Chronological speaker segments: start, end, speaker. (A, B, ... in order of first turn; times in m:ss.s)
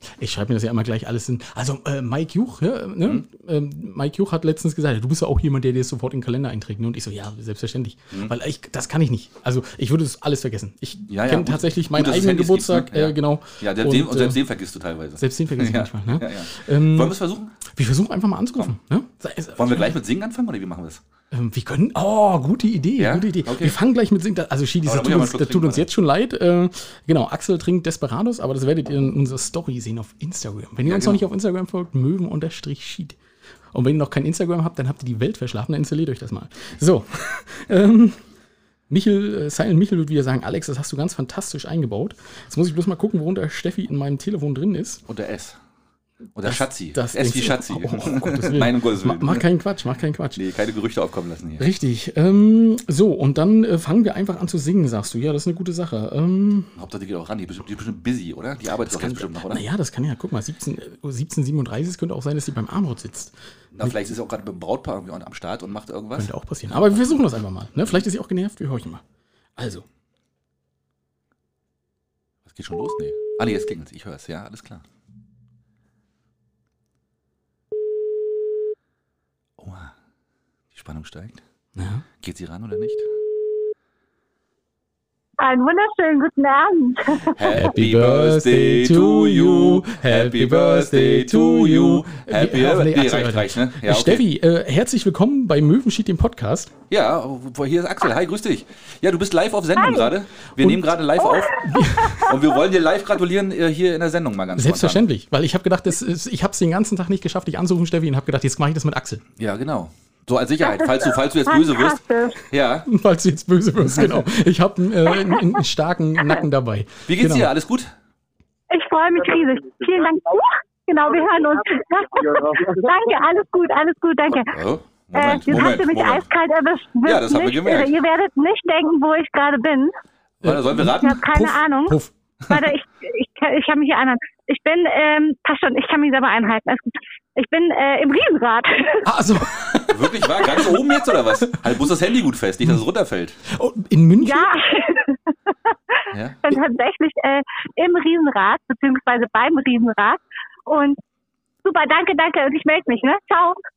0:00.2-0:14.4 A
0:11.1-0:17.5 B
0:15.2-0:17.2 A
0:17.7-0:20.0 A
0:19.6-0:21.0 B
0:21.3-0:33.2 A
0:23.0-0:23.8 B
0:24.8-0:25.9 B
0:30.8-0:31.2 B
0:33.7-0:38.2 A
0:38.9-0:45.0 A
0:45.1-0:45.6 B
0:46.3-0:49.4 B
0:46.4-0:50.4 A
0:50.3-0:51.6 B
0:51.6-0:56.7 A
0:56.7-0:59.6 B
0:58.8-1:03.9 A
1:03.7-1:07.2 B
1:06.2-1:09.0 A
1:09.6-1:09.8 A
1:12.4-1:14.8 B
1:19.6-1:19.9 B
1:20.7-1:21.4 B
1:21.8-1:22.0 A
1:22.2-1:23.1 B
1:25.4-1:27.3 C
1:27.2-1:34.2 B
1:27.5-1:36.7 A
1:36.9-1:41.6 B
1:39.8-1:40.1 C
1:41.6-1:42.3 A
1:42.2-1:45.1 B
1:44.6-1:49.2 A
1:49.4-1:52.9 B
1:50.6-1:52.4 C
1:52.9-1:57.5 A
1:53.8-1:54.3 B
1:57.1-1:57.9 B
1:58.7-2:04.5 C
2:04.3-2:06.3 B
2:05.1-2:09.9 C
2:07.0-2:07.9 B
2:10.4-2:11.4 B
2:10.4-2:12.1 A
2:11.0-2:12.0 C
2:12.4-2:12.7 B
2:12.5-2:19.0 C
2:19.0-2:20.8 A
2:19.9-2:23.4 B
2:23.5-2:24.5 A
2:24.2-2:31.0 C
2:26.1-2:26.6 B
2:31.6-2:33.6 C